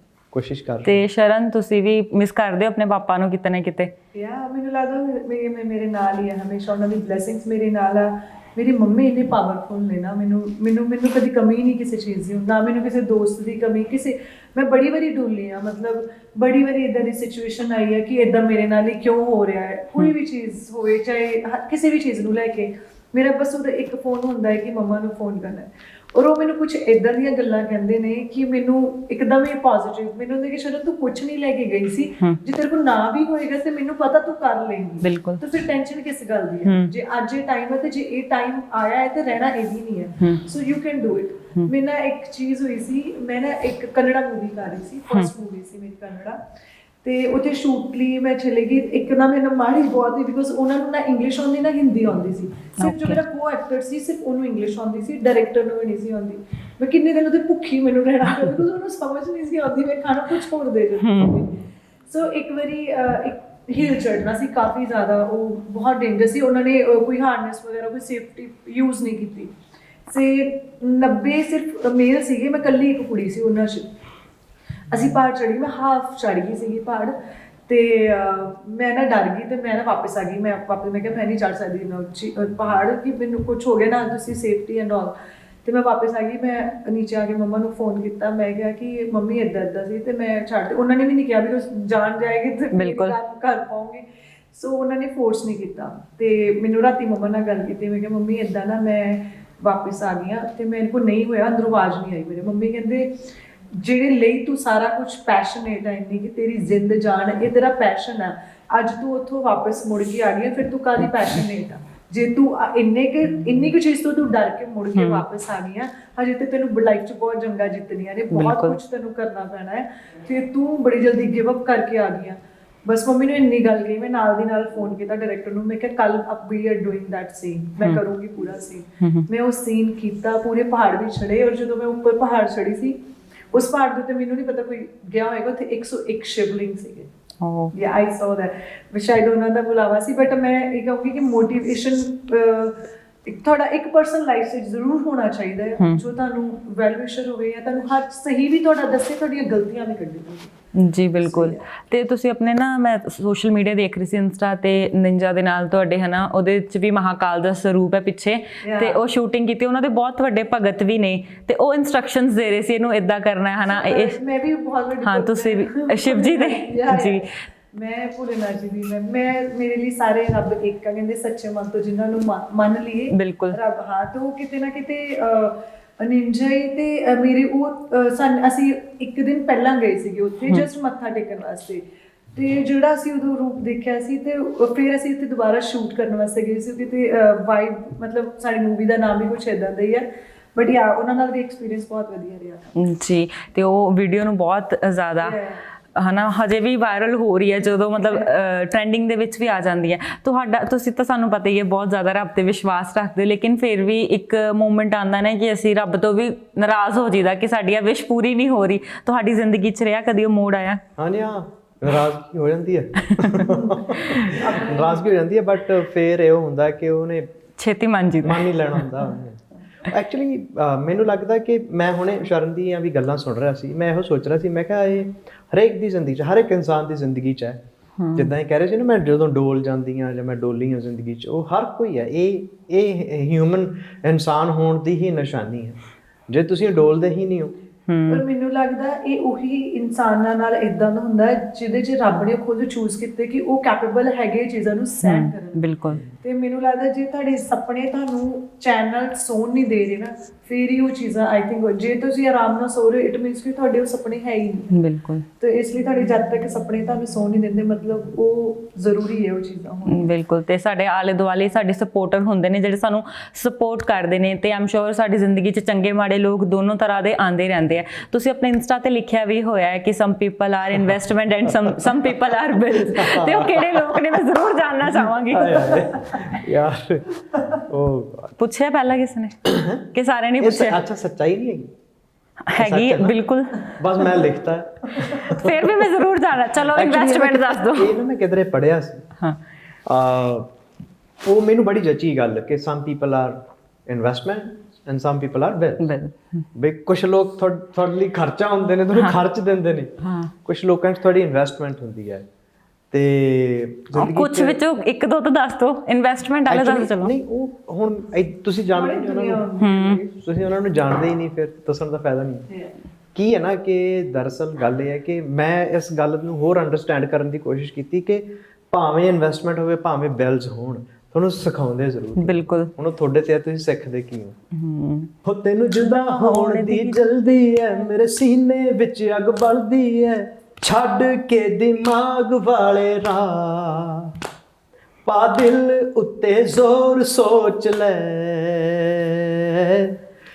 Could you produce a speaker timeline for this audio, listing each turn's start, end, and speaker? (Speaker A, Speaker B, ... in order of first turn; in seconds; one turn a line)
Speaker A: 0.3-1.0
Speaker B: 0.8-3.9
Speaker C: 4.1-46.4
Speaker B: 35.0-35.4
Speaker B: 36.6-36.9
Speaker C: 47.0-69.5
Speaker B: 52.8-53.2
Speaker B: 61.0-61.4
Speaker C: 70.1-73.9
Speaker C: 74.9-85.1
Speaker C: 85.6-103.2
Speaker B: 92.7-93.2
Speaker C: 103.7-133.0
Speaker B: 114.9-115.2
Speaker B: 118.3-118.8
Speaker B: 129.0-129.3
Speaker C: 133.5-137.1
Speaker B: 137.4-137.7
Speaker C: 137.7-150.5
Speaker B: 150.7-164.2
Speaker C: 151.2-151.6
Speaker C: 158.6-159.0
Speaker C: 163.6-192.7
Speaker B: 165.0-167.3
Speaker B: 173.1-173.6
Speaker B: 192.8-195.4
Speaker C: 195.2-195.6
Speaker B: 195.9-210.8
Speaker C: 198.0-198.3
Speaker A: 211.0-217.3
Speaker B: 213.0-214.4
Speaker C: 213.4-215.1
Speaker B: 217.6-218.9
Speaker A: 218.2-227.6
Speaker B: 228.0-228.3
Speaker A: 228.1-237.5
Speaker B: 237.9-238.2
Speaker C: 238.1-254.8
Speaker B: 245.0-246.0
Speaker B: 254.7-255.2
Speaker C: 255.4-260.1
Speaker B: 259.9-275.9
Speaker A: 272.7-278.3
Speaker B: 278.4-280.8
Speaker A: 279.4-279.8
Speaker A: 280.4-281.7
Speaker B: 282.5-283.8
Speaker A: 282.6-285.9
Speaker B: 285.0-288.0
Speaker A: 286.7-289.1
Speaker A: 289.9-290.5
Speaker A: 291.2-295.9
Speaker B: 295.8-296.4
Speaker A: 296.5-302.2
Speaker B: 298.9-299.2
Speaker B: 300.0-300.3
Speaker A: 302.9-304.6
Speaker B: 303.9-307.1
Speaker A: 306.5-309.4
Speaker C: 308.7-310.1
Speaker B: 309.6-310.0
Speaker A: 310.1-312.5
Speaker A: 313.1-324.4
Speaker B: 322.2-322.7
Speaker B: 324.5-325.1
Speaker A: 325.2-334.1
Speaker B: 325.9-327.2
Speaker A: 335.0-339.9